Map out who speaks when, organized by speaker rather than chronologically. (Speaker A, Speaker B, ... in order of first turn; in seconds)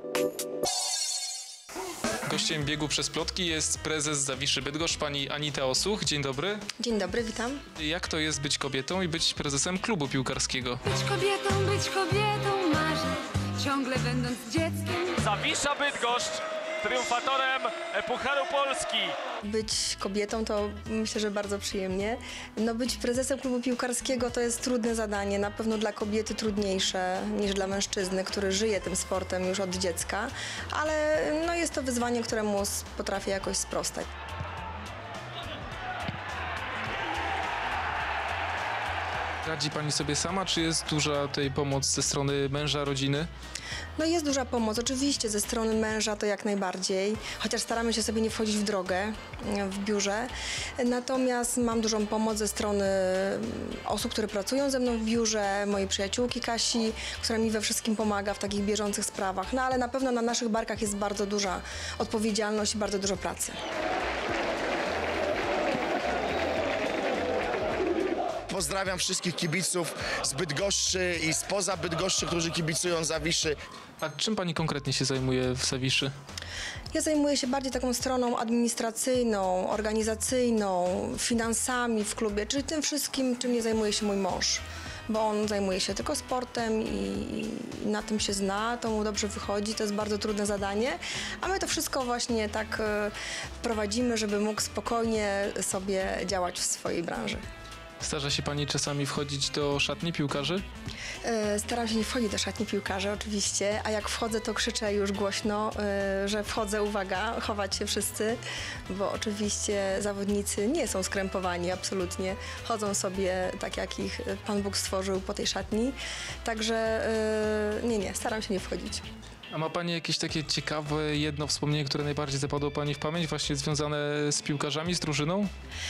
Speaker A: 2.2-6.6, 7.8-10.8, 39.5-43.3, 74.0-76.1, 98.0-100.6, 119.5-125.5
Speaker B: 6.8-7.6, 19.4-34.1, 44.0-63.5, 76.9-97.4, 101.2-108.4, 108.9-119.0
Speaker C: 10.8-15.2
Speaker D: 15.2-19.1
Speaker E: 68.5-73.6